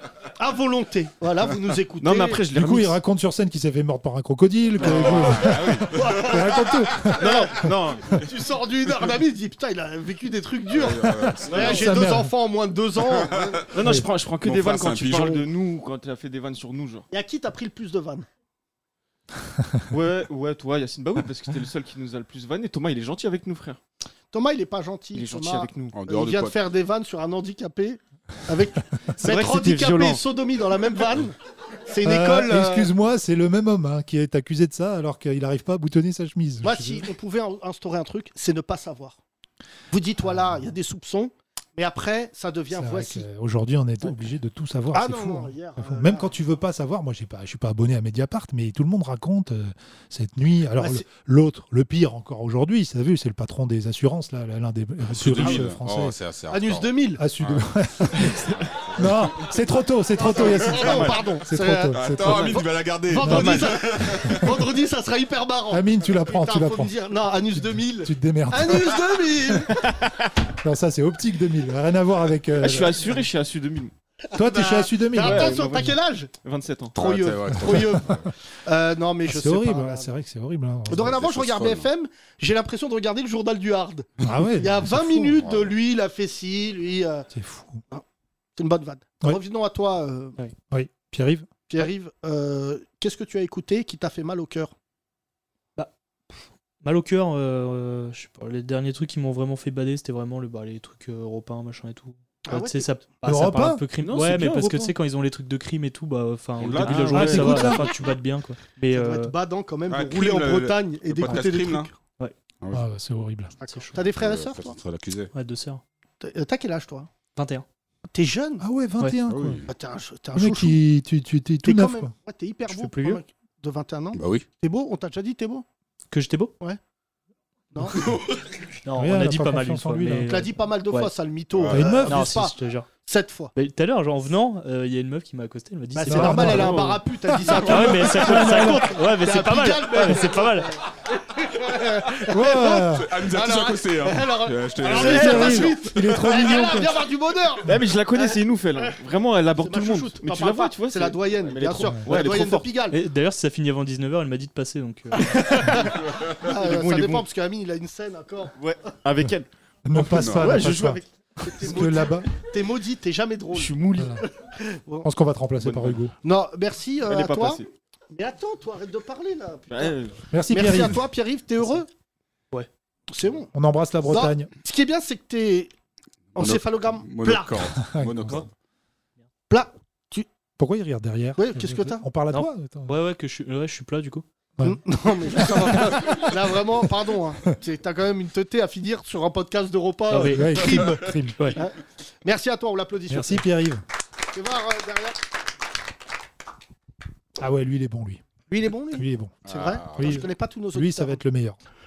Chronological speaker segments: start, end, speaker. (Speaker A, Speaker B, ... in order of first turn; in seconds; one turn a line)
Speaker A: 0.4-2.4
Speaker B: 2.0-3.0
Speaker C: 2.5-7.4
Speaker D: 4.8-6.8
Speaker B: 4.8-6.0
Speaker A: 5.9-13.6
Speaker B: 7.4-8.2
Speaker D: 10.7-11.9
Speaker B: 11.5-11.8
Speaker C: 11.6-12.3
Speaker D: 13.0-13.8
Speaker B: 13.7-17.1
Speaker D: 14.4-15.4
Speaker A: 17.1-18.2
Speaker B: 19.9-23.8
Speaker A: 24.3-31.4
Speaker B: 25.1-26.0
Speaker D: 25.9-26.6
Speaker B: 29.2-30.2
Speaker A: 31.9-32.9
Speaker C: 32.0-37.1
Speaker A: 36.6-39.2
Speaker A: 39.9-43.2
Speaker C: 42.7-56.1
Speaker A: 44.9-46.3
Speaker A: 50.8-51.0
Speaker D: 55.1-59.6
Speaker B: 55.4-55.6
Speaker A: 56.5-57.2
Speaker C: 57.2-62.6
Speaker A: 60.2-62.0
Speaker B: 60.8-61.2
Speaker D: 61.9-64.7
Speaker B: 62.3-62.6
Speaker A: 63.1-69.9
Speaker B: 63.2-63.8
Speaker C: 65.7-66.9
Speaker C: 68.0-69.0
Speaker C: 70.6-73.2
Speaker B: 72.6-73.9
Speaker A: 74.3-76.3
Speaker C: 74.3-75.9
Speaker B: 75.2-77.0
Speaker A: 76.9-80.1
Speaker D: 77.0-78.3
Speaker C: 79.2-81.1
Speaker A: 80.9-87.3
Speaker D: 80.9-81.9
Speaker C: 84.2-85.4
Speaker D: 85.4-85.7
Speaker C: 87.3-87.8
Speaker A: 88.6-90.4
Speaker C: 90.7-91.5
Speaker A: 91.7-94.7
Speaker E: 96.8-109.3
Speaker A: 102.5-102.9
Speaker C: 103.2-103.8
Speaker B: 104.0-104.9
Speaker D: 106.6-107.7
Speaker B: 106.7-107.8
Speaker C: 107.1-107.9
Speaker A: 108.9-111.9
Speaker D: 109.9-111.9
Speaker C: 112.7-113.5
Speaker A: 113.6-114.8
Speaker D: 114.0-115.3
Speaker E: 115.3-115.8
Speaker A: 116.2-117.1
Speaker E: 117.3-117.6
Speaker A: 118.1-118.6
Speaker C: 118.6-119.6
Speaker D: 119.3-119.7
Speaker A: 119.7-120.8
Speaker C: 120.3-122.1
Speaker A: 121.6-125.6
Speaker E: 122.7-123.2
Speaker D: 124.1-124.5
Speaker E: 126.1-126.5
Speaker A: 127.7-128.0
Speaker D: 127.9-128.6
Speaker E: 128.8-131.1
Speaker C: 129.0-130.3
Speaker A: 130.2-133.5
Speaker D: 131.6-132.0
Speaker C: 131.7-132.3
Speaker E: 132.1-132.9
Speaker E: 133.5-136.7
Speaker A: 135.9-148.4
Speaker C: 136.1-138.9
Speaker B: 136.4-137.0
Speaker E: 137.6-140.7
Speaker C: 142.2-143.1
Speaker D: 142.8-145.7
Speaker B: 144.9-145.5
Speaker C: 144.9-147.0
Speaker E: 145.3-145.7
Speaker B: 147.6-152.7
Speaker A: 149.6-153.0
Speaker E: 152.9-155.7
Speaker B: 155.2-157.2
Speaker A: 155.7-158.5
Speaker B: 158.6-159.5
Speaker C: 159.8-162.3
Speaker B: 160.0-161.0
Speaker D: 160.1-160.7
Speaker A: 161.4-165.1
Speaker B: 163.5-164.2
Speaker C: 165.0-166.1
Speaker B: 165.6-166.0
Speaker A: 166.2-170.0
Speaker B: 167.1-167.7
Speaker B: 169.7-170.3
Speaker C: 170.3-171.0
Speaker A: 170.5-171.9
Speaker A: 173.1-173.5
Speaker C: 173.5-174.5
Speaker A: 174.0-175.7
Speaker D: 176.3-178.5
Speaker A: 176.3-177.6
Speaker C: 177.8-178.4
Speaker A: 179.5-180.3
Speaker C: 180.6-182.9
Speaker A: 181.4-182.0
Speaker E: 182.3-184.2
Speaker C: 184.6-186.3
Speaker A: 184.6-193.4
Speaker E: 190.1-190.6
Speaker C: 190.1-191.6
Speaker C: 193.1-193.8
Speaker A: 194.3-195.2
Speaker C: 197.4-198.2
Speaker A: 198.5-201.2
Speaker C: 198.9-199.3
Speaker D: 199.4-200.3
Speaker C: 199.9-201.6